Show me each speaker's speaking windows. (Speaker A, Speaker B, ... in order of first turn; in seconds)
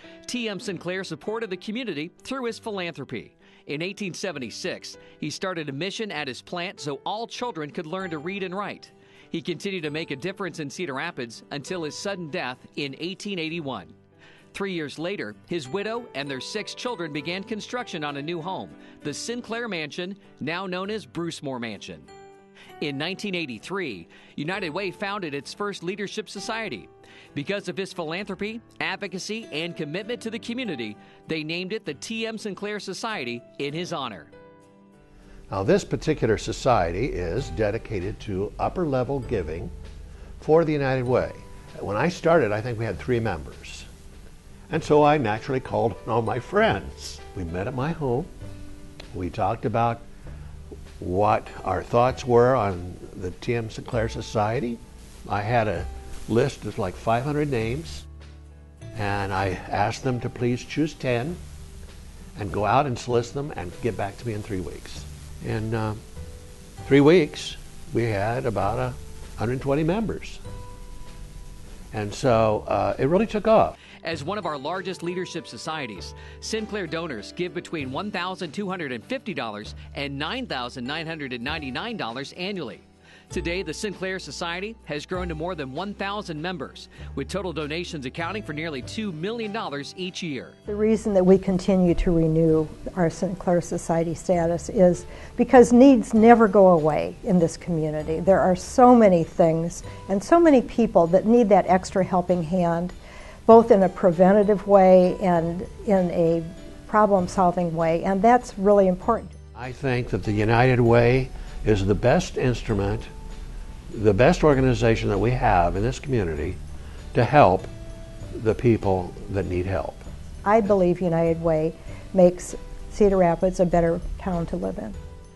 Speaker A: 0.3-13.9, 14.5-22.1, 22.8-34.3, 74.0-90.6
Speaker B: 35.5-39.7, 40.4-43.9, 44.7-48.3, 49.1-50.0, 51.0-58.0, 59.0-61.4, 62.4-66.0, 66.8-70.4, 71.9-73.8, 109.6-113.1, 113.9-116.6, 117.1-117.7, 118.3-120.1
Speaker C: 90.7-102.9, 103.5-109.4, 120.4-125.0